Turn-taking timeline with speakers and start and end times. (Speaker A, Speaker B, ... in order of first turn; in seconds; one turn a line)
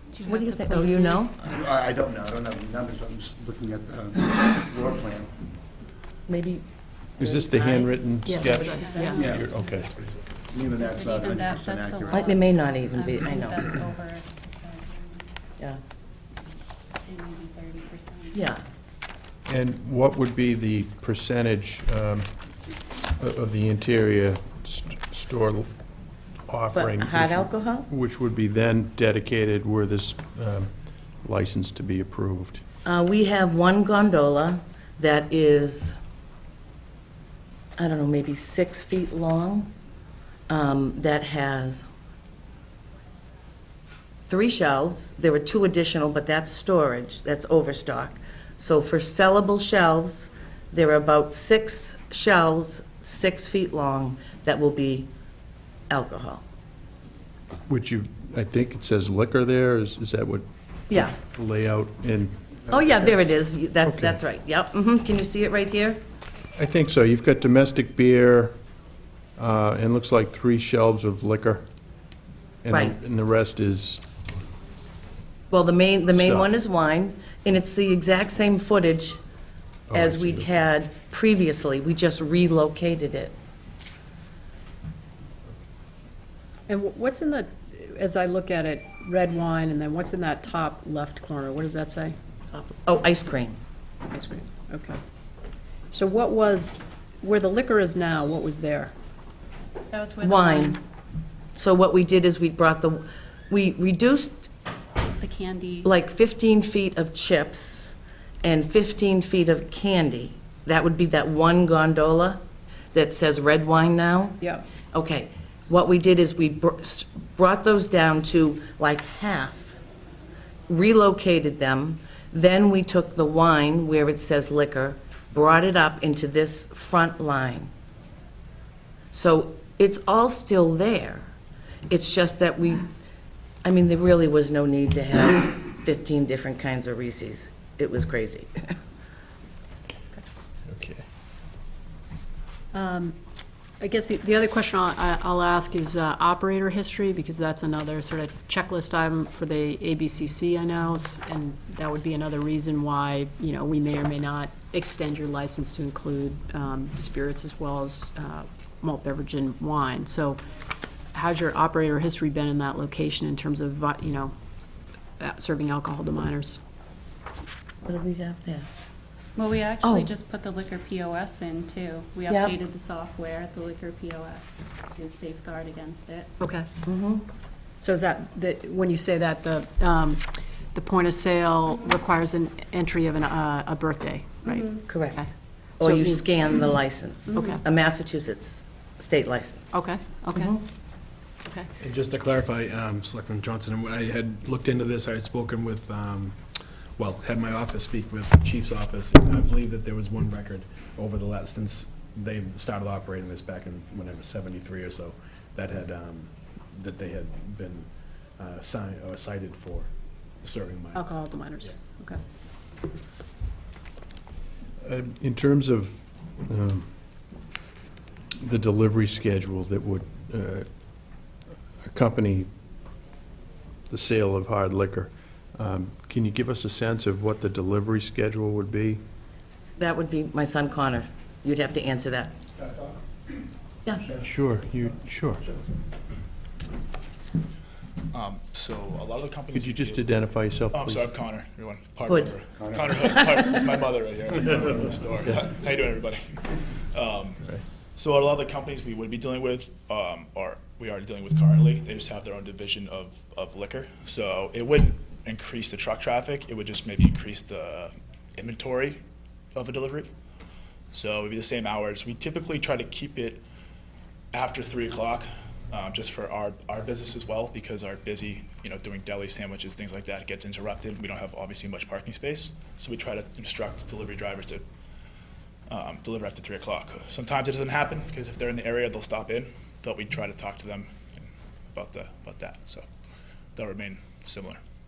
Speaker A: 0.1-1.2
Speaker B: 0.2-1.3
Speaker C: 1.4-5.3
Speaker B: 6.3-6.6
Speaker B: 7.2-7.9
Speaker D: 7.2-10.2
Speaker E: 8.2-9.2
Speaker A: 8.4-9.8
Speaker C: 9.2-9.6
Speaker C: 10.4-12.3
Speaker A: 10.8-15.3
Speaker B: 12.1-13.7
Speaker A: 17.0-18.4
Speaker B: 18.3-18.6
Speaker D: 19.4-22.3
Speaker D: 23.2-25.7
Speaker D: 26.5-32.6
Speaker B: 26.7-27.9
Speaker B: 32.8-35.9
Speaker B: 37.8-39.7
Speaker B: 40.5-41.8
Speaker B: 44.2-55.1
Speaker B: 55.9-56.4
Speaker D: 57.7-62.4
Speaker B: 60.9-61.1
Speaker B: 62.7-66.0
Speaker D: 63.9-64.2
Speaker D: 66.5-68.5
Speaker D: 69.4-71.6
Speaker D: 72.6-74.0
Speaker B: 72.7-73.0
Speaker B: 75.5-79.2
Speaker D: 76.1-76.5
Speaker D: 79.9-80.5
Speaker B: 79.9-83.3
Speaker E: 86.7-92.2
Speaker B: 92.5-93.6
Speaker E: 94.1-95.0
Speaker E: 95.9-98.9
Speaker A: 99.9-100.8
Speaker B: 100.2-100.8
Speaker B: 101.5-104.5
Speaker A: 105.2-105.9
Speaker B: 105.8-112.4
Speaker B: 112.9-114.4
Speaker E: 114.4-114.6
Speaker B: 114.9-119.7
Speaker B: 120.7-127.7
Speaker B: 129.1-131.3
Speaker B: 131.9-132.9
Speaker B: 133.6-138.8
Speaker D: 140.7-141.0
Speaker E: 142.7-143.1
Speaker E: 143.8-160.4
Speaker E: 161.1-164.3
Speaker E: 165.2-166.6
Speaker B: 167.8-168.7
Speaker A: 169.3-176.3
Speaker B: 169.8-170.1
Speaker B: 172.3-172.6
Speaker E: 176.4-176.7
Speaker B: 176.8-177.3
Speaker E: 177.8-185.3
Speaker A: 184.5-184.8
Speaker B: 184.8-185.2
Speaker B: 185.8-189.8
Speaker E: 185.8-186.2
Speaker E: 187.3-187.6
Speaker E: 189.7-190.6
Speaker B: 190.3-190.6
Speaker F: 191.8-209.9
Speaker F: 210.4-211.7
Speaker E: 210.9-212.2
Speaker D: 214.8-217.0
Speaker D: 218.4-220.7
Speaker D: 221.8-222.5
Speaker D: 223.9-229.0
Speaker B: 229.8-232.3
Speaker C: 232.6-233.0
Speaker D: 234.1-235.5
Speaker G: 238.1-240.1
Speaker D: 239.5-241.1
Speaker G: 240.7-259.0
Speaker B: 242.1-242.4
Speaker C: 242.5-243.2
Speaker B: 243.0-243.5
Speaker G: 259.5-260.1
Speaker G: 260.9-263.4
Speaker G: 264.3-274.6
Speaker G: 275.7-282.8
Speaker G: 283.6-284.6